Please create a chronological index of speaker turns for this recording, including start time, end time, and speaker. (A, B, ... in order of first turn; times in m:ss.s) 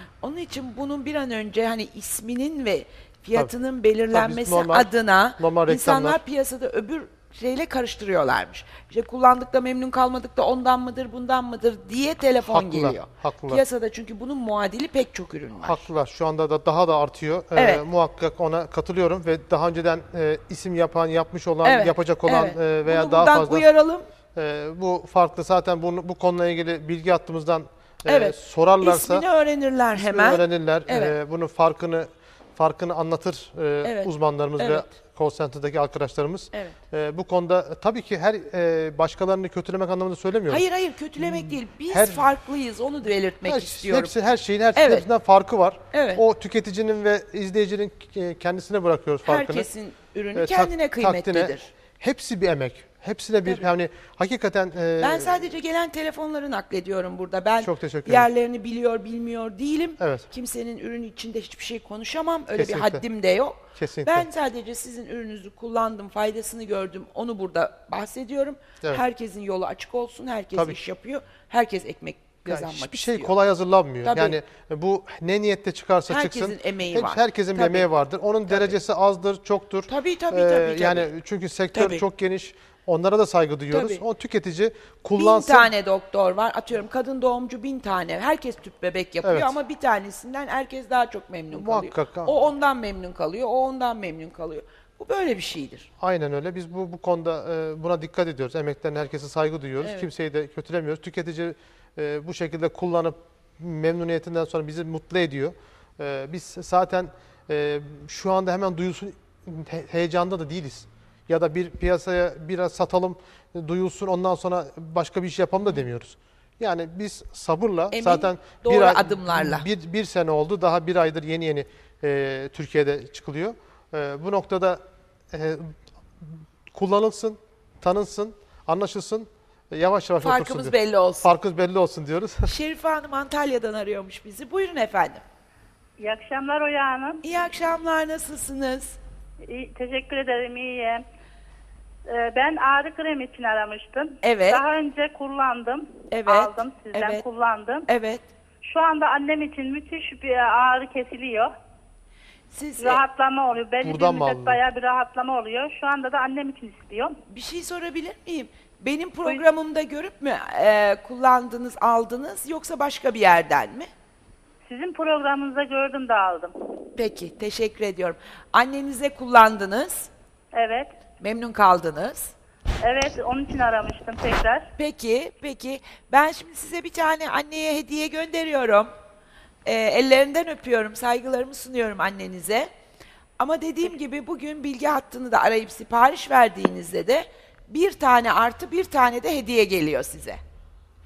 0:00.2-0:15.9 A
0:04.1-0:06.2 B
0:12.4-0:13.6 B
0:15.6-0:23.7 B
0:17.5-0:17.8 A
0:21.6-0:24.0 A
0:24.3-0:29.2 B
0:28.0-0:31.1 A
0:29.9-0:40.6 B
0:33.8-0:34.9 A
0:40.5-0:44.1 A
0:41.2-0:42.3 B
0:43.4-0:49.7 B
0:44.7-0:45.0 A
0:45.9-0:46.2 A
0:49.2-0:51.7 A
0:50.3-0:55.5 B
0:55.0-1:13.3 A
0:57.6-0:58.3 B
1:00.0-1:00.2 B
1:02.5-1:03.0 B
1:03.8-1:04.3 B
1:12.4-1:25.7 B
1:14.0-1:14.4 A
1:16.1-1:17.9 A
1:18.5-1:18.7 A
1:19.9-1:21.1 A
1:21.7-1:22.0 A
1:23.7-1:24.0 A
1:25.2-1:35.9 A
1:29.2-1:29.6 B
1:31.5-1:32.4 B
1:36.0-2:04.8 B
1:39.8-1:40.1 A
1:57.9-1:59.7 A
2:05.3-2:12.5 B
2:10.2-2:11.3 A
2:12.4-2:15.2 A
2:16.0-2:17.2 C
2:17.2-2:19.0 A
2:19.4-2:21.0 C
2:22.1-2:27.9 C
2:24.2-2:24.7 A
2:26.1-2:27.2 A
2:27.9-2:28.3 A
2:28.6-2:31.5 C
2:32.5-2:33.0 A
2:32.8-2:37.2 C
2:33.8-2:34.6 B
2:37.3-2:43.9 A
2:44.7-2:46.5 C
2:47.0-2:50.1 A
2:50.5-2:50.9 C
2:51.2-2:52.3 A
2:52.8-2:54.7 C
2:54.8-2:58.9 A
2:59.6-3:02.7 A
3:03.4-3:10.4 A